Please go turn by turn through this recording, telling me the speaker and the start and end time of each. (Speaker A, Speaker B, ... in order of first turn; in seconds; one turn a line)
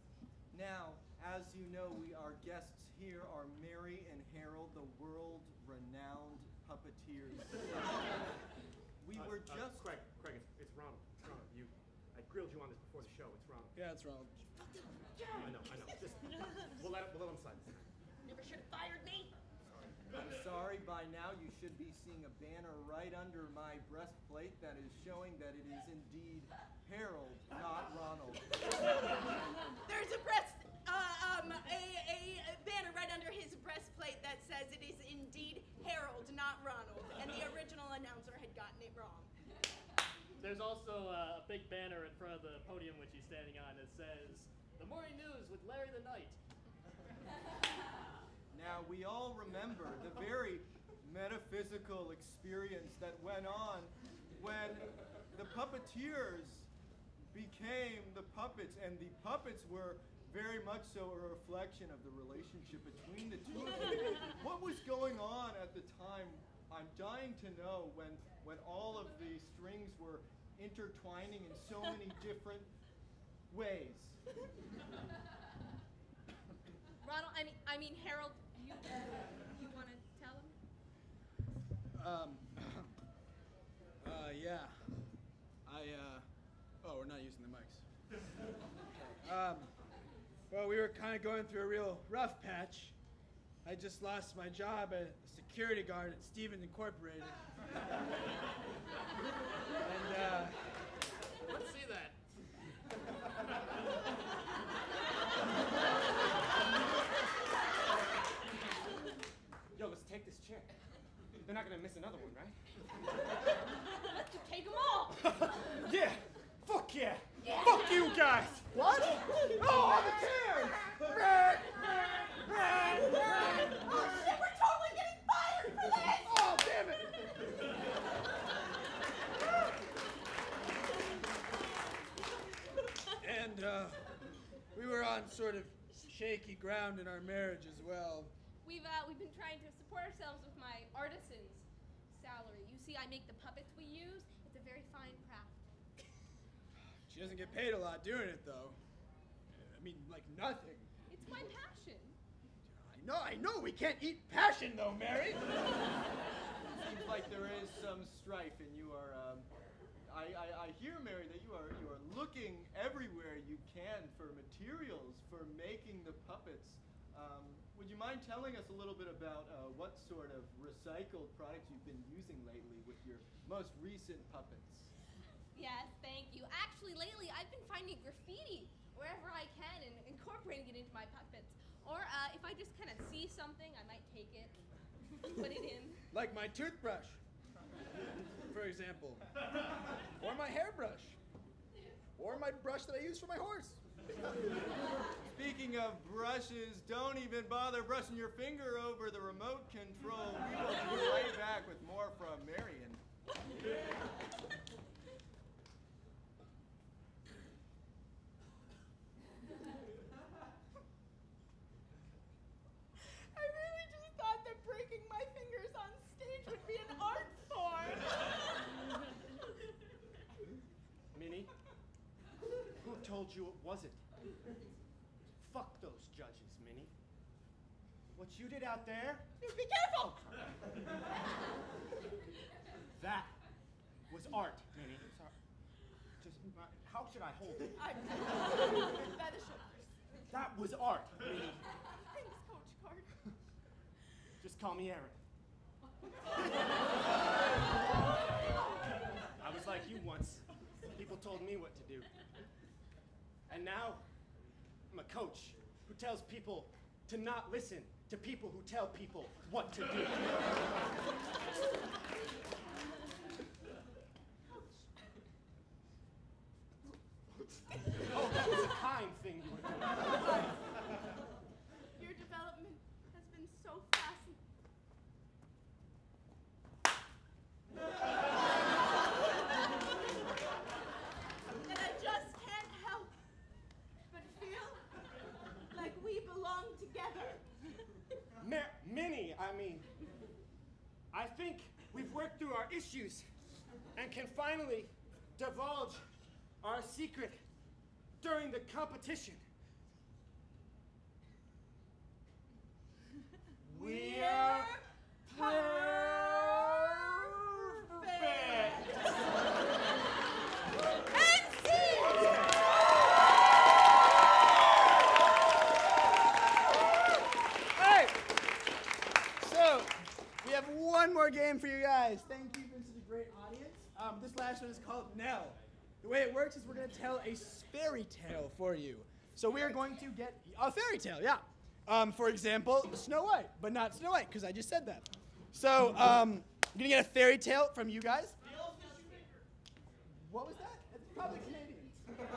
Speaker A: 0.5-7.9
Speaker A: 9.0-9.8
Speaker B: 9.1-13.7
Speaker C: 13.7-14.4
Speaker D: 15.2-15.6
Speaker B: 15.3-17.9
Speaker D: 18.2-19.4
Speaker B: 19.6-20.0
Speaker A: 20.1-28.4
Speaker D: 29.8-39.3
Speaker E: 40.4-46.4
Speaker A: 48.5-56.7
Speaker A: 57.3-72.7
Speaker A: 73.5-74.2
Speaker F: 77.0-80.5
Speaker C: 81.9-83.0
Speaker C: 84.0-84.8
Speaker C: 85.6-86.2
Speaker C: 86.8-87.8
Speaker C: 88.9-89.7
Speaker C: 90.5-92.9
Speaker C: 93.6-97.4
Speaker C: 99.8-100.7
Speaker E: 101.5-102.2
Speaker B: 109.7-110.7
Speaker B: 111.4-112.5
Speaker F: 114.1-115.2
Speaker B: 115.2-118.7
Speaker F: 117.5-118.0
Speaker C: 118.7-123.8
Speaker D: 122.9-126.7
Speaker C: 126.2-127.3
Speaker C: 133.2-134.1
Speaker C: 134.7-138.3
Speaker F: 138.6-145.6
Speaker C: 146.9-148.8
Speaker C: 149.5-150.9
Speaker F: 151.1-152.2
Speaker C: 152.7-155.4
Speaker A: 156.7-159.5
Speaker A: 160.1-174.9
Speaker F: 175.5-186.1
Speaker C: 186.1-187.2
Speaker C: 188.5-189.3
Speaker C: 190.0-191.2
Speaker C: 192.2-193.8
Speaker A: 195.3-203.0
Speaker D: 213.0-218.4
Speaker B: 221.1-221.5
Speaker B: 222.8-224.0
Speaker B: 225.4-226.9
Speaker B: 228.1-229.3
Speaker D: 229.4-230.4
Speaker B: 232.9-233.3
Speaker B: 234.1-235.3
Speaker B: 236.2-237.8
Speaker D: 237.8-239.9
Speaker B: 240.3-241.6
Speaker D: 242.0-243.1
Speaker B: 244.4-245.2
Speaker B: 249.4-252.1
Speaker B: 253.5-254.0
Speaker B: 254.9-260.5
Speaker D: 264.5-264.8
Speaker B: 268.1-270.5
Speaker D: 271.9-274.4
Speaker D: 281.6-283.1
Speaker D: 284.1-284.8
Speaker D: 285.7-287.4
Speaker B: 288.4-289.9
Speaker B: 291.1-293.3
Speaker B: 293.9-296.1
Speaker B: 296.6-297.4
Speaker B: 298.2-299.4
Speaker B: 303.6-304.7
Speaker D: 303.7-306.8
Speaker B: 305.3-308.8
Speaker D: 307.9-308.9
Speaker D: 311.1-312.4
Speaker B: 312.1-312.6
Speaker C: 317.7-318.3
Speaker C: 319.4-338.4
Speaker E: 338.4-339.1
Speaker C: 340.1-342.0